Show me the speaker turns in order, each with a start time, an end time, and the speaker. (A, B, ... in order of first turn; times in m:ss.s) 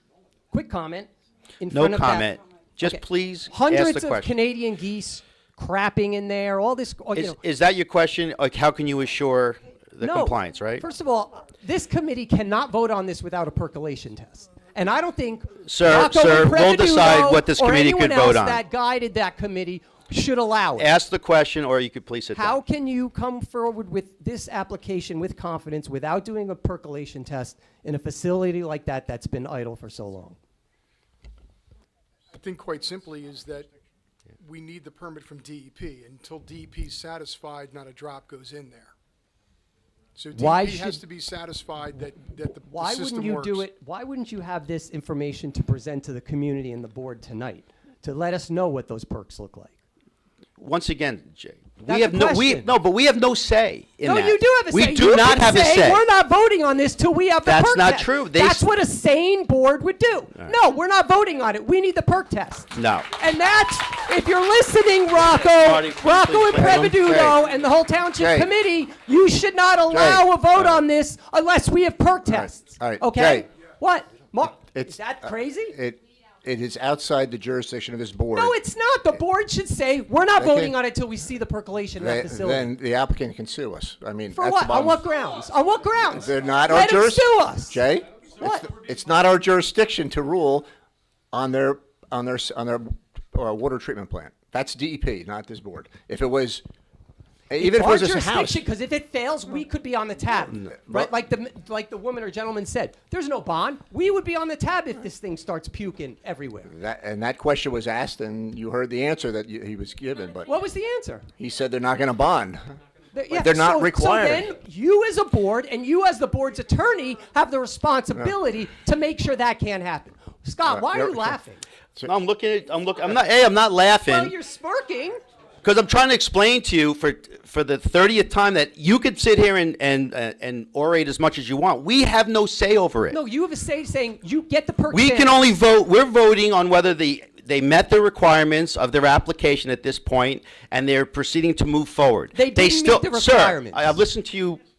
0:00.5-0:02.3 A
0:01.7-0:04.3 B
0:02.8-0:07.4 A
0:07.2-0:10.8 B
0:10.0-0:20.9 A
0:15.6-0:18.6 B
0:20.8-0:22.6 B
0:22.3-0:30.4 A
0:32.3-0:33.7 C
0:34.4-0:38.9 C
0:40.2-0:43.7 C
0:40.3-0:41.0 A
0:42.6-0:49.8 A
0:50.6-0:56.0 B
0:51.9-0:52.7 A
0:54.0-1:15.8 A
0:57.4-0:58.6 B
1:02.7-1:03.1 B
1:05.3-1:07.0 B
1:06.5-1:07.4 D
1:08.2-1:08.5 D
1:09.9-1:10.3 D
1:12.2-1:13.5 D
1:15.7-1:18.6 D
1:18.3-1:22.7 A
1:20.4-1:20.8 D
1:22.0-1:25.0 D
1:24.3-1:27.8 A
1:26.1-1:30.7 D
1:28.4-1:28.7 A
1:31.3-1:36.6 D
1:37.5-1:38.6 D
1:37.6-1:46.7 A
1:40.8-1:41.1 D
1:46.7-1:50.5 D
1:50.4-1:51.3 A
1:51.4-1:52.6 D
1:53.1-2:01.6 A
1:53.3-1:54.5 D
2:00.7-2:01.4 D
2:02.0-2:04.3 B
2:04.0-2:05.2 A
2:05.6-2:13.2 B
2:13.1-2:15.5 A
2:14.9-2:24.6 B
2:22.3-2:24.0 A